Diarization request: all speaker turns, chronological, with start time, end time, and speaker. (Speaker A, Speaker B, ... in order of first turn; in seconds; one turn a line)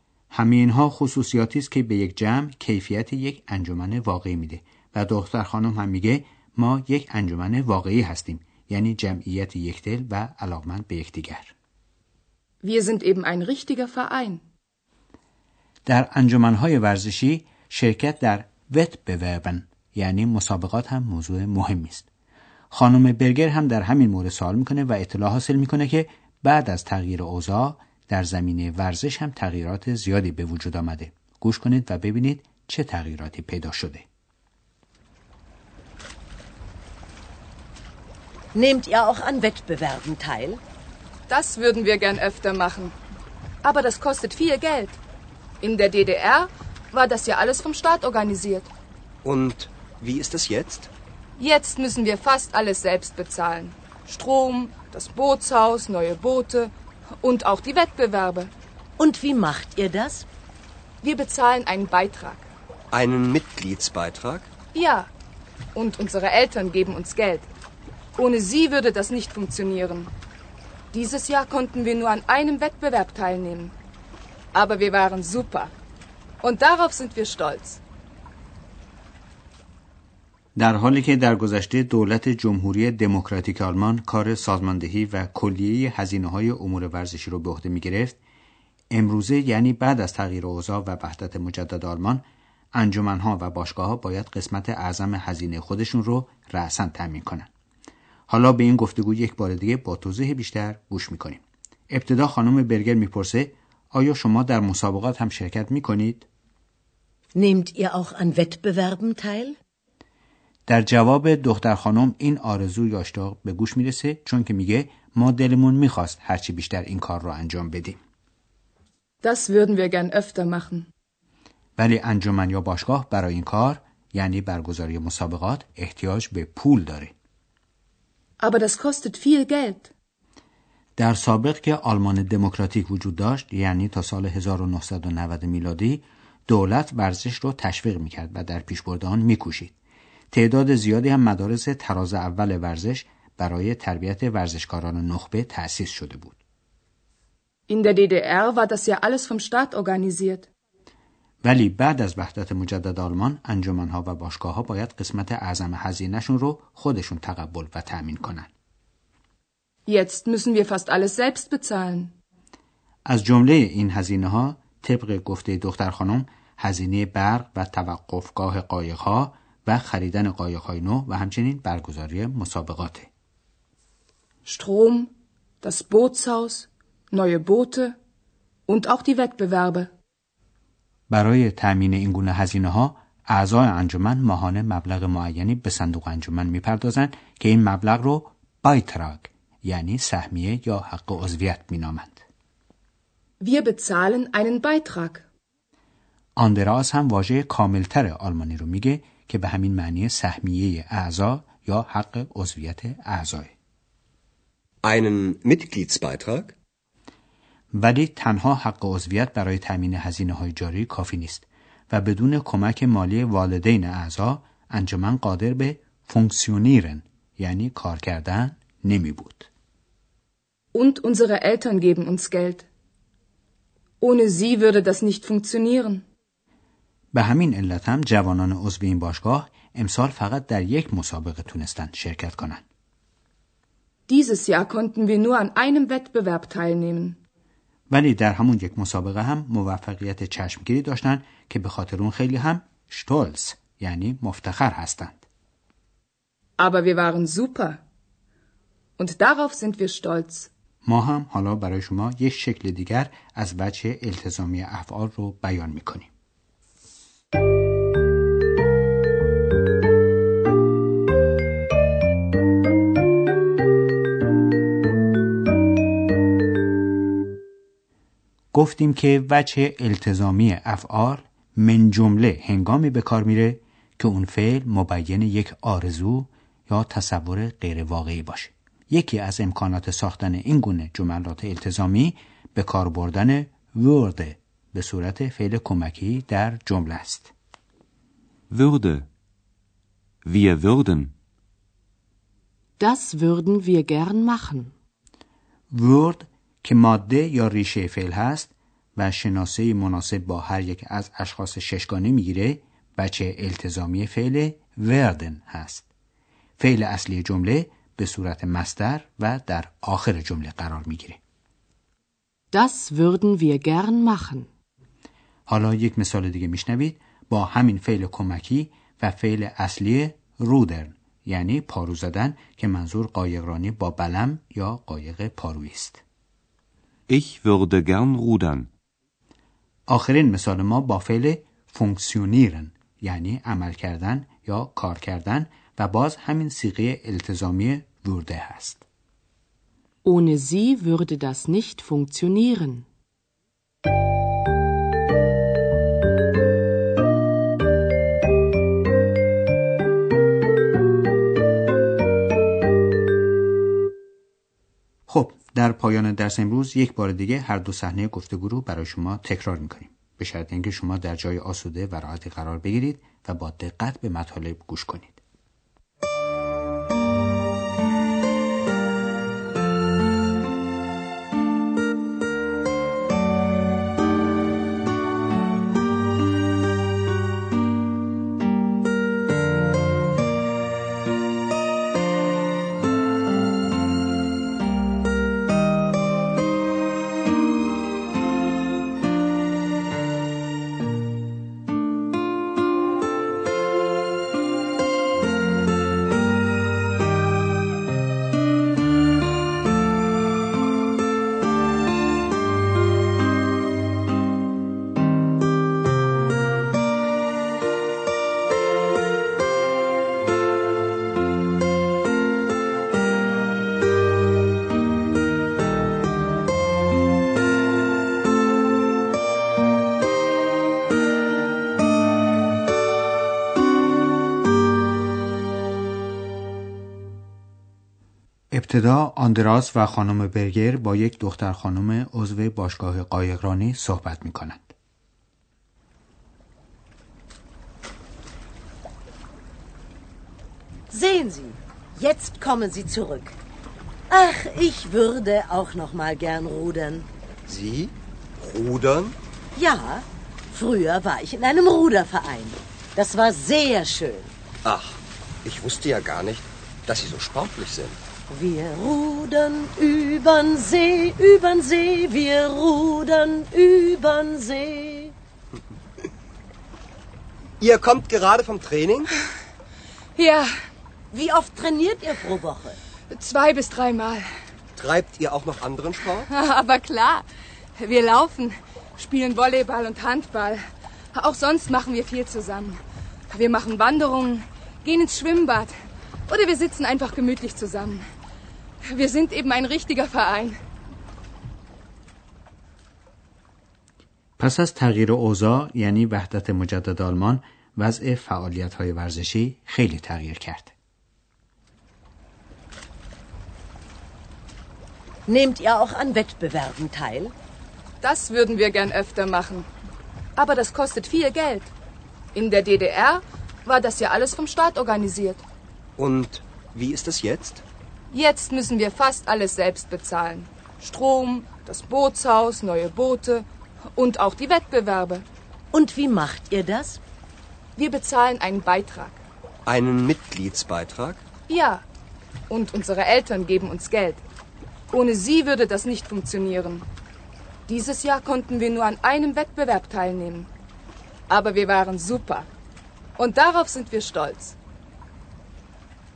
Speaker A: 0.3-11.5
Speaker B: 12.6-14.4
Speaker A: 15.9-22.1
Speaker A: 22.7-34.0
Speaker C: 38.5-40.6
Speaker B: 41.3-43.0
Speaker B: 43.6-45.0
Speaker B: 45.6-48.7
Speaker D: 49.2-50.9
Speaker B: 51.4-58.5
Speaker C: 59.0-60.3
Speaker B: 61.0-62.5
Speaker D: 62.9-64.5
Speaker B: 64.7-65.1
Speaker B: 65.7-67.5
Speaker B: 68.2-70.1
Speaker B: 70.9-73.8
Speaker B: 74.5-75.7
Speaker B: 76.4-77.8
Speaker A: 80.6-88.2
Speaker A: 88.9-97.5
Speaker A: 98.3-106.3
Speaker C: 107.3-109.6
Speaker A: 110.7-118.0
Speaker B: 119.2-120.9
Speaker A: 121.8-127.1
Speaker B: 128.4-129.9
Speaker A: 131.0-139.8
Speaker A: 140.3-146.4
Speaker B: 147.7-150.5
Speaker A: 151.4-158.5
Speaker B: 159.9-162.1
Speaker A: 163.1-173.1
Speaker B: 174.5-178.0
Speaker B: 178.7-179.9
Speaker A: 181.1-192.2
Speaker B: 193.4-195.3
Speaker A: 196.4-203.5
Speaker D: 204.8-206.6
Speaker A: 207.7-219.5
Speaker B: 220.7-222.7
Speaker B: 224.0-226.1
Speaker A: 227.1-232.6
Speaker B: 234.1-237.2
Speaker A: 237.9-245.2
Speaker B: 246.6-247.8
Speaker B: 249.0-250.5
Speaker A: 250.8-256.1
Speaker A: 268.5-287.3
Speaker E: 288.5-289.1
Speaker E: 290.2-291.1
Speaker F: 292.8-294.7
Speaker A: 295.7-305.9
Speaker A: 306.6-311.2
Speaker F: 312.5-314.5
Speaker A: 315.5-326.0
Speaker E: 327.1-328.7
Speaker A: 329.9-338.9
Speaker F: 340.1-342.9
Speaker A: 355.1-365.2
Speaker A: 428.5-434.7
Speaker C: 440.9-443.4
Speaker C: 444.1-447.1
Speaker D: 447.5-449.2
Speaker C: 449.6-454.4
Speaker D: 454.6-458.0
Speaker C: 458.3-465.1
Speaker D: 467.6-469.1
Speaker B: 470.1-470.5
Speaker C: 471.1-472.8
Speaker B: 473.1-474.3
Speaker D: 474.8-476.3
Speaker B: 476.3-485.7
Speaker B: 486.3-488.0
Speaker B: 488.9-490.6
Speaker A: 494.4-500.7
Speaker C: 505.3-507.4
Speaker B: 508.0-509.7
Speaker B: 510.4-511.7
Speaker B: 512.3-515.4
Speaker D: 516.0-517.6
Speaker B: 518.1-525.3
Speaker C: 525.7-527.0
Speaker B: 527.8-529.2
Speaker D: 529.7-531.2
Speaker B: 531.5-531.9
Speaker B: 532.5-534.2
Speaker B: 534.9-536.9
Speaker B: 537.7-540.5
Speaker B: 541.3-542.5
Speaker B: 543.2-544.6